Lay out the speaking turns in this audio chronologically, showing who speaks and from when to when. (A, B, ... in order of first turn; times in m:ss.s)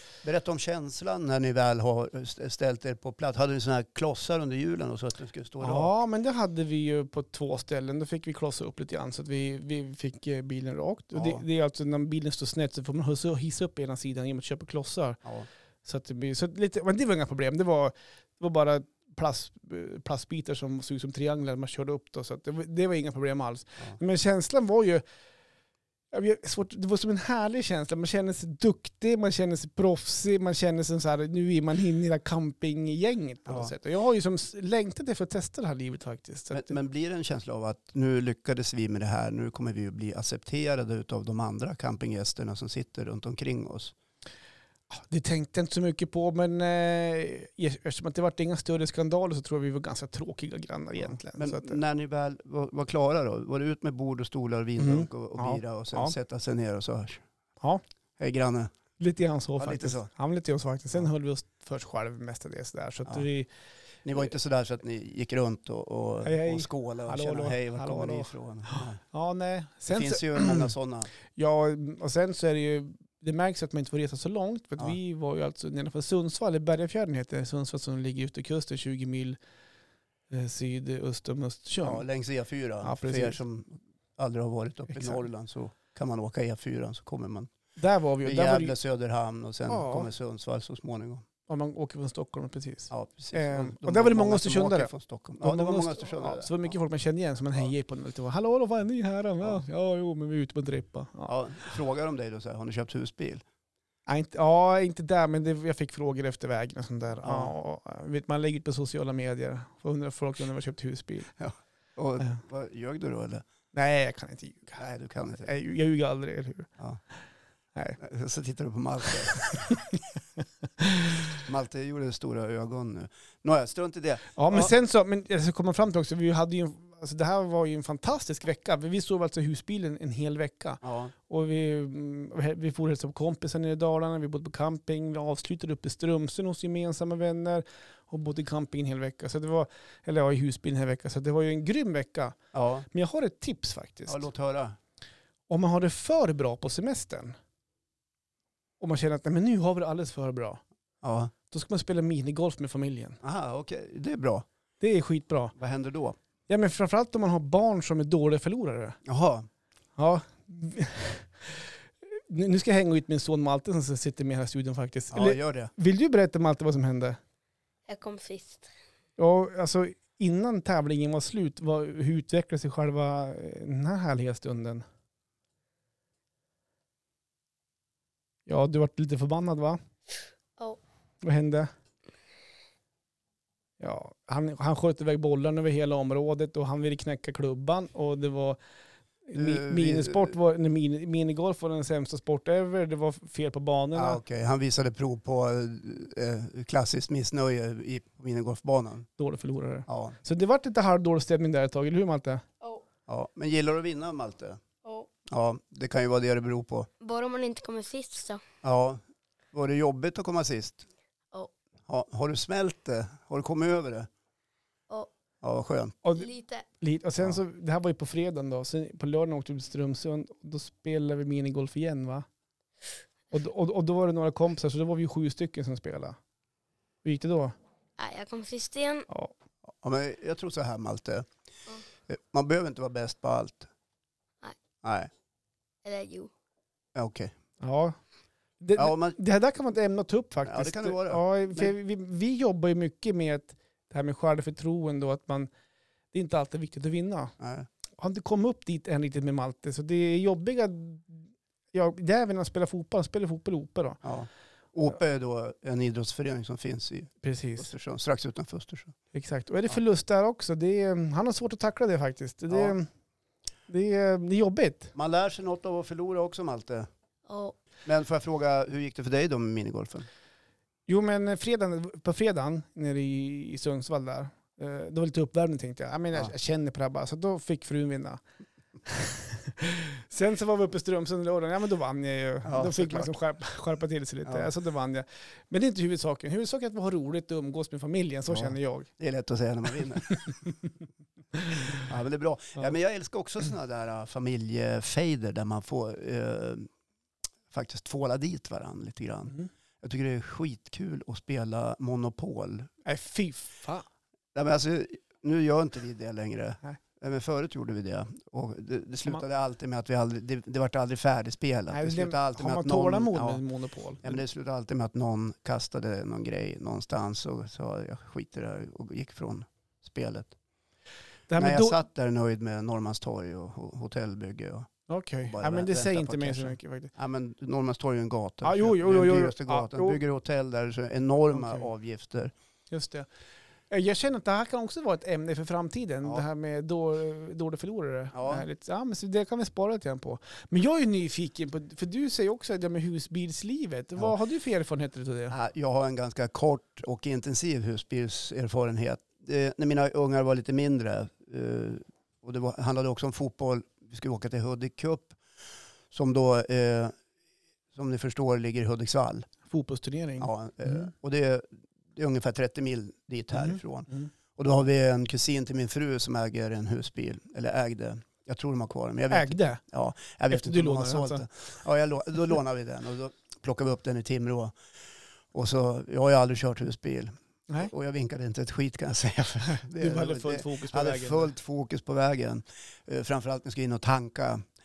0:00.2-0:06.0 A
0:05.6-0:15.2 B
0:11.1-0:11.4 A
0:15.8-0:25.0 B
0:26.1-0:36.8 B
0:36.5-0:43.9 A
0:44.9-0:51.8 B
0:51.0-0:57.2 A
0:54.8-0:56.1 B
0:58.2-0:58.7 A
0:59.0-1:03.5 B
0:59.6-1:00.1 A
1:04.0-1:09.0 A
1:06.2-1:10.7 B
1:09.9-1:11.1 A
1:11.4-1:19.4 B
1:20.3-1:22.0 B
1:21.8-1:27.5 A
1:22.8-1:23.4 B
1:24.9-1:25.2 B
1:27.8-1:28.8 B
1:28.2-1:31.2 A
1:29.7-1:30.1 B
1:31.5-1:41.4 B
1:32.9-1:36.7 A
1:41.3-1:43.4 A
1:44.1-1:51.3 B
1:47.2-1:47.5 A
1:51.4-1:53.4 A
1:53.7-1:54.8 B
1:54.8-1:55.5 A
1:55.3-1:56.7 B
1:58.0-1:59.7 A
2:00.8-2:01.2 B
2:01.4-2:04.7 A
2:04.4-2:22.4 B
2:10.8-2:11.1 A
2:22.5-2:22.9 A
2:22.9-2:24.2 B
2:24.1-2:24.8 A
2:25.5-2:27.4 B
2:28.8-2:30.6 B
2:31.0-2:31.3 A
2:31.5-2:33.2 B
2:33.2-2:34.5 A
2:34.8-2:35.5 B
2:35.6-2:36.2 A
2:36.5-2:39.0 B
2:39.1-2:39.5 A
2:40.0-2:47.2 B
2:45.1-2:45.7 A
2:47.9-2:48.7 C
2:49.2-2:54.8 B
2:58.5-2:59.8 B
3:01.2-3:01.7 B
3:03.8-3:08.6 B
3:09.3-3:14.2 B
3:09.4-3:10.4 A
3:14.0-3:19.1 A
3:19.2-3:22.4 B
3:19.9-3:20.2 A
3:23.1-3:24.6 A
3:25.3-3:26.9 A
3:27.0-3:28.4 C
3:28.6-3:29.0 A
3:29.5-3:30.9 A
3:31.9-3:34.1 A
3:35.4-3:36.0 A
3:36.2-3:36.6 C
3:36.8-3:42.3 B
3:43.3-3:46.2 B
3:47.0-3:47.6 B
3:48.0-3:49.1 C
3:49.8-3:51.3 A
3:52.1-3:53.7 A
3:54.8-3:55.1 A
3:55.8-3:56.3 C
3:57.0-3:57.4 A
3:57.6-3:58.0 B
3:58.6-4:05.5 B
3:58.8-3:59.2 A
4:00.4-4:01.7 A
4:06.1-4:07.3 B
4:07.4-4:07.7 A
4:08.0-4:14.0 B
4:14.0-4:19.0 A
4:17.2-4:17.7 B
4:19.1-4:22.9 B
4:22.5-4:22.8 A
4:23.7-4:24.9 B
4:25.0-4:26.9 A
4:27.3-4:27.6 C
4:27.8-4:30.1 A
4:30.9-4:38.2 B
4:38.9-4:48.9 B
4:42.4-4:43.1 A
4:44.2-4:44.5 A
4:48.3-4:50.3 A
4:51.4-4:51.8 B
4:51.8-4:56.7 A
4:57.5-5:02.7 A
5:02.8-5:03.9 B
5:04.4-5:13.4 A
5:11.7-5:14.2 B
5:14.0-5:20.4 A
5:21.3-5:21.8 B
5:21.4-5:24.7 A
5:24.9-5:26.9 B
5:25.2-5:32.3 A
5:28.4-5:30.0 B
5:31.3-5:31.7 B
5:32.7-5:33.1 B
5:33.7-5:45.4 B
5:38.1-5:38.4 A
5:45.3-5:55.2 A
5:55.9-5:56.9 A
5:57.7-5:59.3 A
5:59.5-6:00.9 B
6:00.2-6:14.6 A
6:03.3-6:04.1 B
6:09.1-6:09.6 B
6:10.3-6:11.3 B
6:15.3-6:24.4 A
6:19.4-6:21.3 B